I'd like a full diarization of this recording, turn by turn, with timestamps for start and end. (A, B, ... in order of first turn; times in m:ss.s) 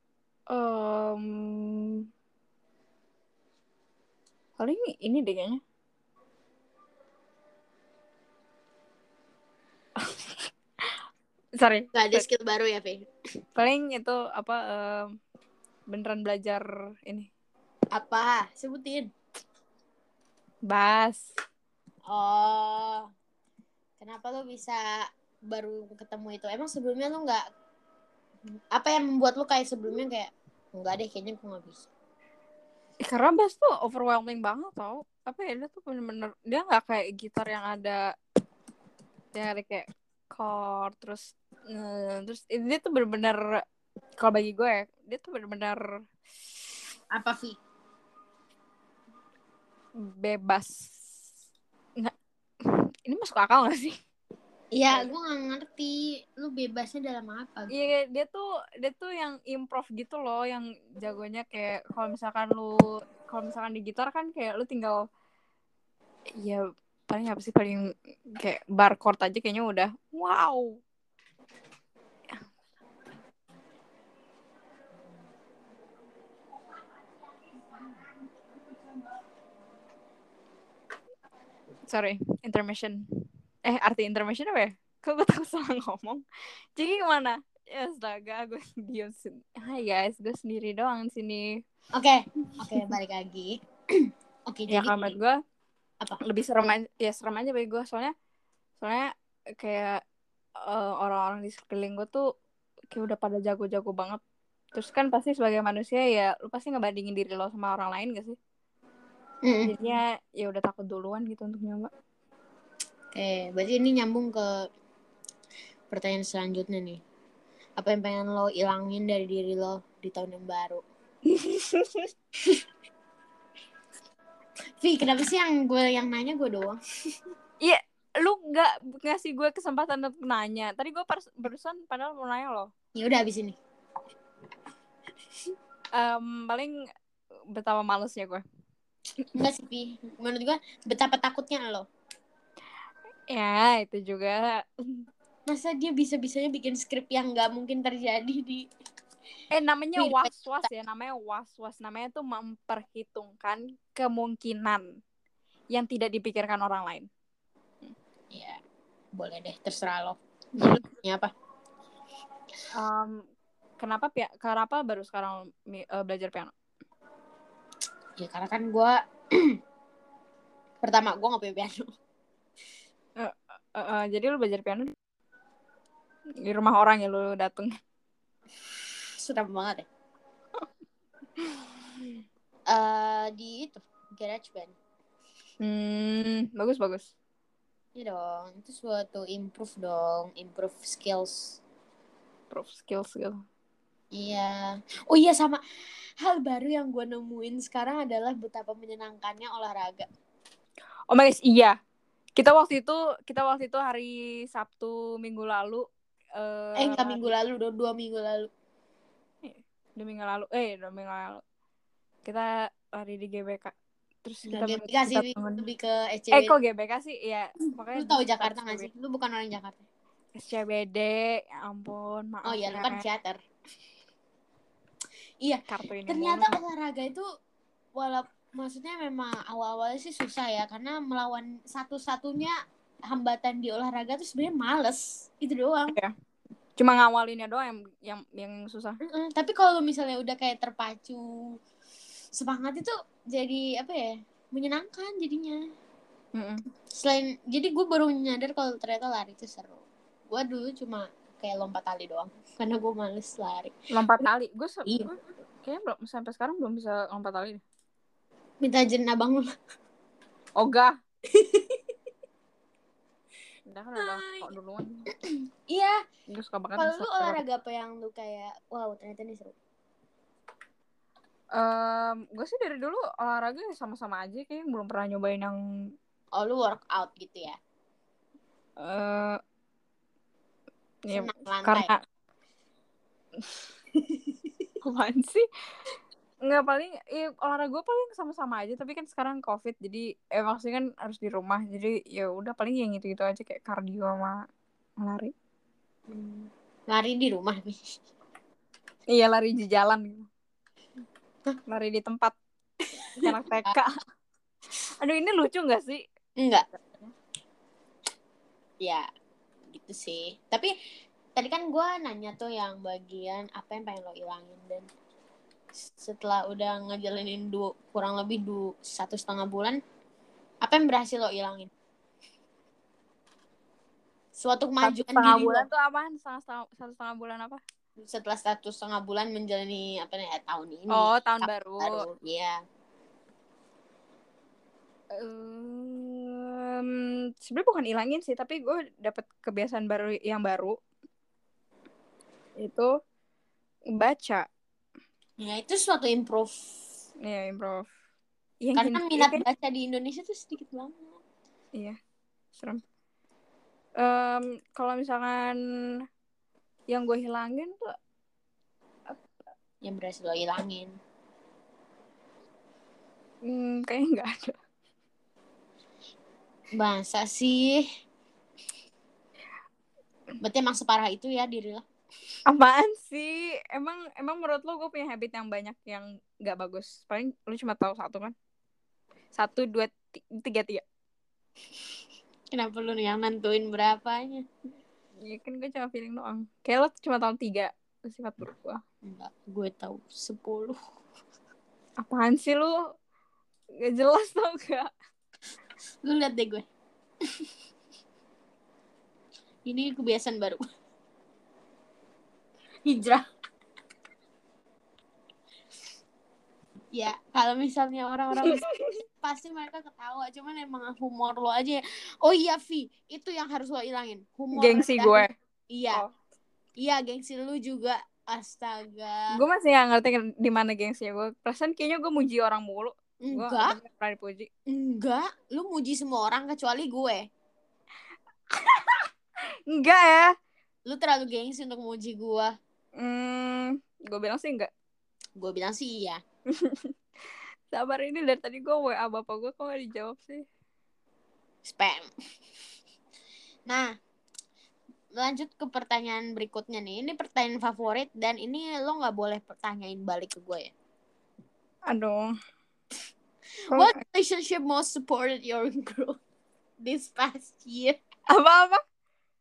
0:00.5-0:02.1 A
0:04.6-0:05.6 A
0:10.0-0:10.9 A
0:11.6-0:12.2 A
0:11.9-0:13.1 B
0:13.6-0:15.1 A
0:15.9-0:17.3 A
0:17.9-0:19.1 B
0:20.7-0:21.3 A
0:22.1-0:23.1 B
0:24.0-0:27.4 B
0:28.7-0:31.9 B
0:33.0-0:38.0 A
0:39.4-0:43.5 A
0:44.2-0:45.8 A
0:47.1-0:47.6 B
0:50.0-0:50.9 A
0:52.0-0:54.0 A
0:54.7-0:57.7 B
0:57.7-1:05.0 A
1:06.4-1:10.8 A
1:21.9-1:26.2 A
1:26.8-1:31.5 A
1:31.9-1:35.1 B
1:32.6-1:33.0 A
1:34.7-1:35.4 A
1:36.2-1:38.1 A
1:38.8-1:39.1 A
1:39.6-1:40.0 A
1:40.6-1:42.2 A
1:42.9-1:44.2 A
1:44.8-1:48.4 A
1:49.4-1:49.7 B
1:49.6-1:51.9 A
1:53.1-1:54.6 B
1:55.9-1:57.0 B
1:57.8-2:00.8 B
2:01.3-2:02.1 A
2:04.8-2:06.8 B
2:07.6-2:12.7 A
2:13.0-2:13.6 B
2:16.0-2:16.7 A
2:17.6-2:18.4 A
2:19.4-2:21.8 B
2:23.3-2:25.1 A
2:25.5-2:28.6 B
2:29.5-2:34.9 A
2:30.0-2:30.7 B
2:35.7-2:37.1 A
2:38.3-2:38.6 B
2:39.2-2:41.3 B
2:42.7-2:43.2 A
2:43.8-2:46.5 A
2:48.2-2:49.6 B
2:50.8-2:51.9 B
2:53.2-2:55.0 A
2:56.4-2:57.8 A
2:59.2-2:59.9 B
3:01.4-3:02.1 A
3:02.7-3:04.8 B
3:05.6-3:07.1 A
3:08.0-3:11.6 B
3:12.5-3:13.4 A
3:14.2-3:15.6 B
3:16.2-3:20.1 B
3:21.1-3:21.8 A
3:22.4-3:25.9 A
3:26.4-3:27.3 A
3:26.8-3:28.5 B
3:29.4-3:31.4 A
3:32.2-3:35.6 A
3:34.5-3:36.6 B
3:36.3-3:38.9 A
3:37.9-3:39.8 B
3:40.4-3:43.0 A
3:42.4-3:43.4 B
3:45.4-3:47.2 B
3:45.7-3:46.6 A
3:48.0-3:52.5 B
3:53.1-3:56.0 B
3:56.8-3:59.0 A
3:59.0-4:01.3 B
4:02.4-4:05.6 B
4:06.4-4:06.6 A
4:06.9-4:13.7 B
4:13.9-4:17.6 A
4:18.6-4:19.5 B
4:20.6-4:21.0 A
4:21.3-4:21.8 B
4:23.7-4:25.1 A
4:24.0-4:24.5 B
4:25.7-4:26.0 B
4:26.3-4:27.4 A
4:26.8-4:29.6 B
4:31.6-4:35.6 A
4:36.4-4:37.6 B
4:38.8-4:39.4 A
4:41.0-4:42.0 A
4:41.1-4:41.9 B
4:44.8-4:45.5 A
4:46.5-4:54.4 A
4:55.0-4:55.3 A
4:56.1-4:57.8 B
4:59.1-5:00.3 A
5:01.7-5:02.4 A
5:03.2-5:04.0 A
5:03.2-5:03.7 B
5:05.0-5:06.0 A
5:06.4-5:06.7 B
5:09.7-5:10.7 B
5:11.4-5:14.9 B
5:15.8-5:19.8 B
5:20.6-5:21.7 B
5:24.4-5:25.7 B
5:24.8-5:27.6 A
5:28.0-5:32.6 B
5:30.9-5:32.1 A
5:35.1-5:40.8 A
5:42.6-5:42.9 A
5:44.0-5:44.5 A
5:45.4-5:46.7 B
5:47.2-5:47.9 A
5:48.6-5:49.4 A
5:48.8-5:51.2 B
5:52.6-5:52.8 A
5:54.0-5:55.6 A
5:56.9-5:58.0 A
5:59.8-6:01.0 B
6:03.5-6:04.6 A
6:06.8-6:07.8 B
6:10.4-6:11.8 B
6:12.5-6:18.4 A
6:19.3-6:20.8 A
6:22.5-6:24.4 B
6:25.2-6:28.8 A
6:29.1-6:30.8 B
6:32.0-6:32.8 A
6:33.8-6:34.9 A
6:36.0-6:36.6 B
6:39.7-6:40.6 B
6:42.8-6:43.2 B
6:46.9-6:56.0 B
6:48.4-6:48.9 A
6:54.5-6:55.3 A
6:56.8-6:59.4 B
6:59.3-7:04.5 A
7:03.2-7:03.8 B
7:04.7-7:07.2 B
7:08.5-7:09.1 A
7:09.7-7:10.3 A
7:10.9-7:12.5 B
7:13.0-7:14.7 A
7:15.4-7:16.2 B
7:16.5-7:16.9 A
7:17.7-7:20.5 A
7:21.6-7:22.1 B
7:25.2-7:30.7 B
7:31.9-7:32.3 A
7:33.6-7:36.2 B
7:36.8-7:38.0 B
7:38.3-7:38.8 A